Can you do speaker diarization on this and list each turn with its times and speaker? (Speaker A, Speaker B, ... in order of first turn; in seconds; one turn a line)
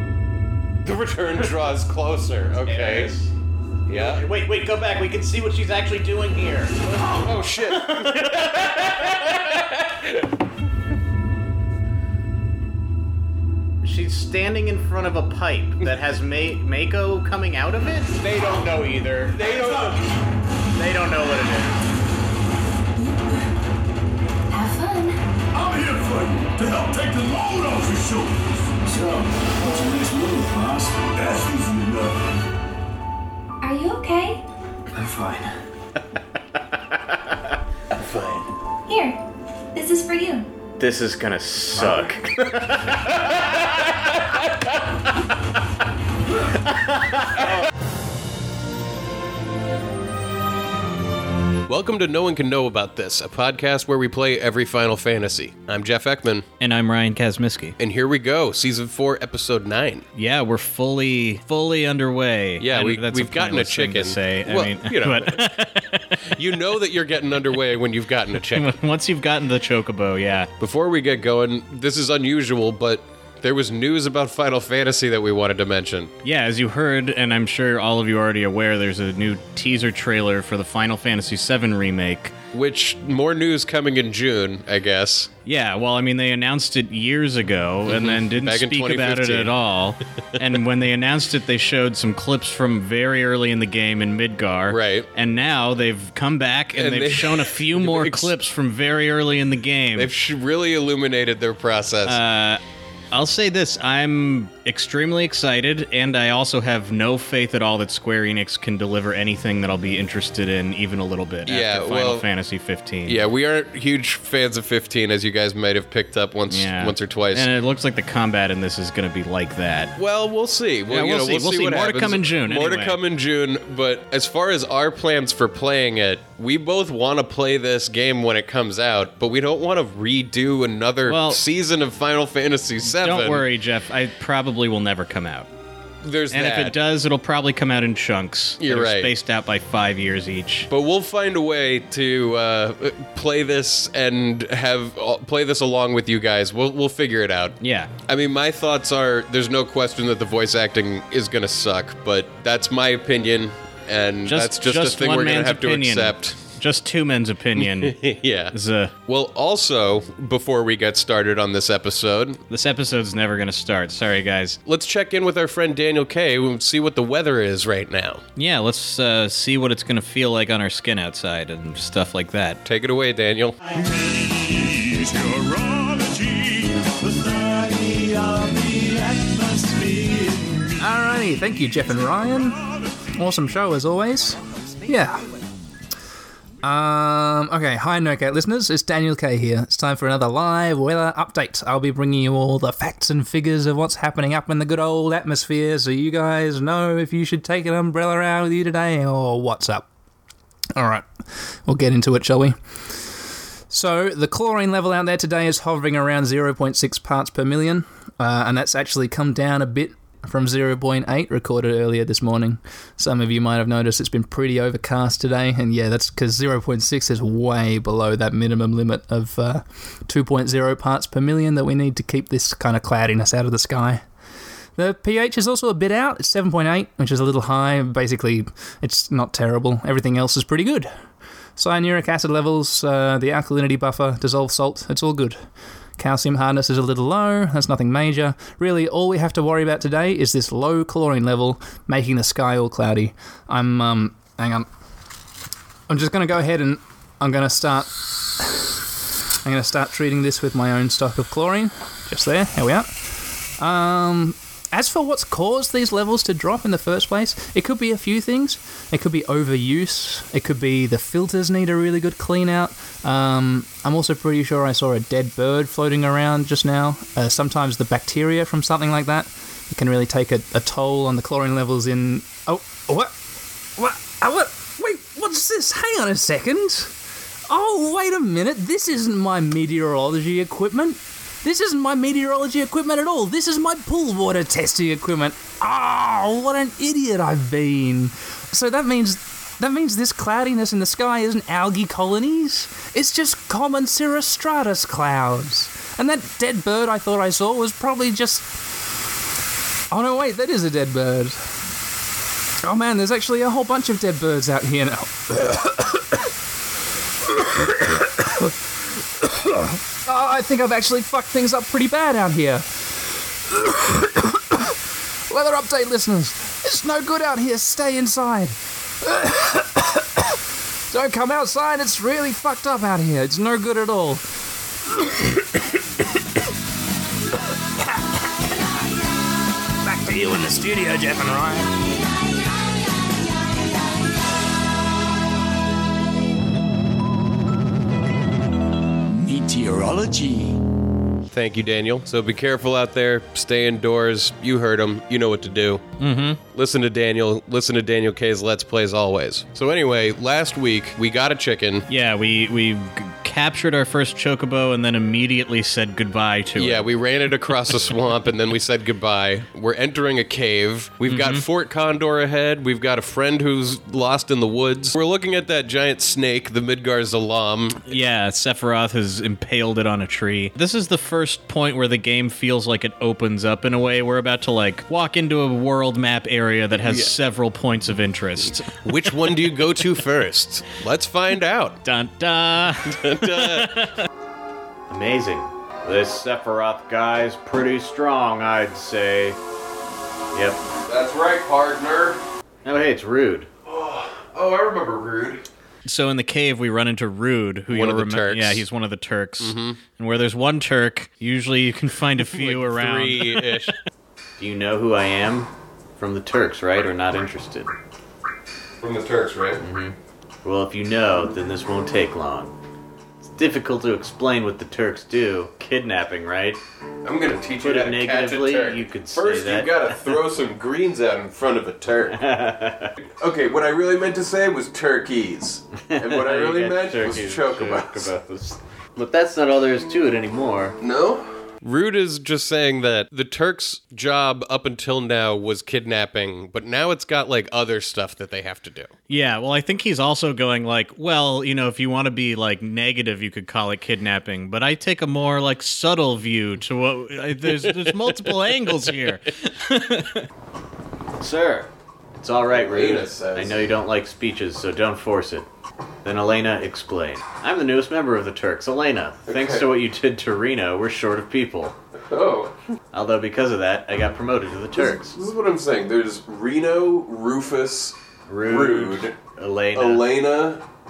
Speaker A: 0.8-3.1
Speaker B: 2.6-3.3
Speaker A: 3.9-4.2
Speaker B: 3.9-4.2
Speaker C: 4.2-6.8
Speaker A: 6.9-10.2
Speaker C: 13.8-19.4
Speaker B: 18.2-18.9
Speaker A: 19.3-20.0
Speaker D: 19.3-20.0
Speaker C: 20.7-21.8
Speaker E: 24.5-25.2
Speaker D: 25.5-32.2
Speaker E: 33.6-34.4
Speaker D: 34.9-35.5
Speaker D: 37.9-38.5
Speaker E: 38.9-39.2
Speaker E: 39.7-40.5
Speaker B: 40.8-42.4
Speaker A: 51.7-56.5
Speaker C: 56.6-57.8
Speaker A: 57.8-60.0
Speaker C: 60.1-66.2
Speaker A: 62.6-65.5
Speaker A: 66.3-68.7
Speaker C: 68.4-70.5
Speaker A: 70.6-76.1
Speaker C: 76.2-82.3
Speaker A: 82.5-85.3
Speaker C: 85.5-100.1
Speaker A: 87.9-89.5
Speaker A: 94.7-95.1
Speaker A: 96.7-98.3
Speaker A: 100.0-102.2
Speaker C: 102.0-102.6
Speaker C: 103.1-113.2
Speaker A: 111.5-112.2
Speaker A: 113.0-117.5
Speaker C: 116.5-119.9
Speaker A: 120.0-133.4
Speaker C: 120.9-123.0
Speaker C: 131.1-131.4
Speaker C: 132.8-135.5
Speaker A: 136.0-136.7
Speaker C: 136.3-140.7
Speaker A: 138.6-139.1
Speaker A: 140.7-147.5
Speaker C: 147.6-147.9
Speaker A: 148.1-156.4
Speaker C: 154.2-158.9
Speaker A: 157.6-158.5
Speaker A: 159.1-162.4
Speaker C: 162.5-164.6
Speaker A: 164.7-168.2
Speaker C: 168.3-172.6
Speaker A: 172.6-173.6
Speaker D: 173.7-180.8
Speaker F: 180.8-185.3
Speaker F: 186.6-199.8
Speaker F: 200.7-201.1
Speaker F: 201.7-202.6
Speaker F: 203.7-224.0
Speaker F: 224.8-230.9
Speaker F: 231.6-235.4
Speaker F: 236.0-244.7
Speaker F: 245.9-248.8
Speaker F: 249.4-252.9
Speaker F: 253.6-273.1
Speaker F: 273.8-276.9
Speaker F: 277.5-298.5
Speaker F: 299.9-301.4
Speaker F: 302.6-306.3
Speaker F: 307.2-308.6
Speaker F: 309.2-312.7
Speaker F: 313.5-314.8
Speaker F: 315.3-320.4
Speaker F: 320.9-324.2
Speaker F: 325.0-325.3
Speaker F: 329.9-330.9
Speaker D: 329.9-331.6
Speaker D: 339.1-340.6
Speaker A: 341.3-345.8
Speaker C: 346.0-346.4
Speaker A: 346.5-351.9
Speaker C: 351.9-356.9
Speaker A: 356.6-367.9
Speaker C: 361.1-361.4
Speaker C: 367.9-378.7
Speaker A: 376.8-377.1
Speaker A: 378.8-381.8
Speaker C: 381.8-384.0
Speaker A: 382.9-383.9
Speaker B: 384.9-389.4
Speaker B: 390.3-390.6
Speaker A: 390.8-392.2
Speaker B: 392.6-393.5
Speaker A: 393.6-395.4
Speaker C: 395.8-403.7
Speaker A: 397.7-398.6
Speaker A: 399.4-399.8
Speaker A: 402.2-403.7
Speaker B: 404.4-407.7
Speaker A: 408.8-409.6
Speaker B: 409.6-412.5
Speaker B: 413.2-416.6
Speaker A: 417.0-422.3
Speaker B: 417.6-419.9
Speaker B: 422.1-422.9
Speaker A: 423.0-428.1
Speaker B: 425.8-430.8
Speaker A: 430.8-438.9
Speaker C: 439.1-450.3
Speaker A: 447.5-448.4
Speaker B: 451.2-455.5
Speaker A: 452.5-453.7
Speaker B: 456.0-461.8
Speaker A: 459.3-459.6
Speaker A: 462.1-462.5
Speaker B: 462.9-465.2
Speaker A: 464.7-469.1
Speaker B: 468.3-470.0
Speaker A: 469.7-470.6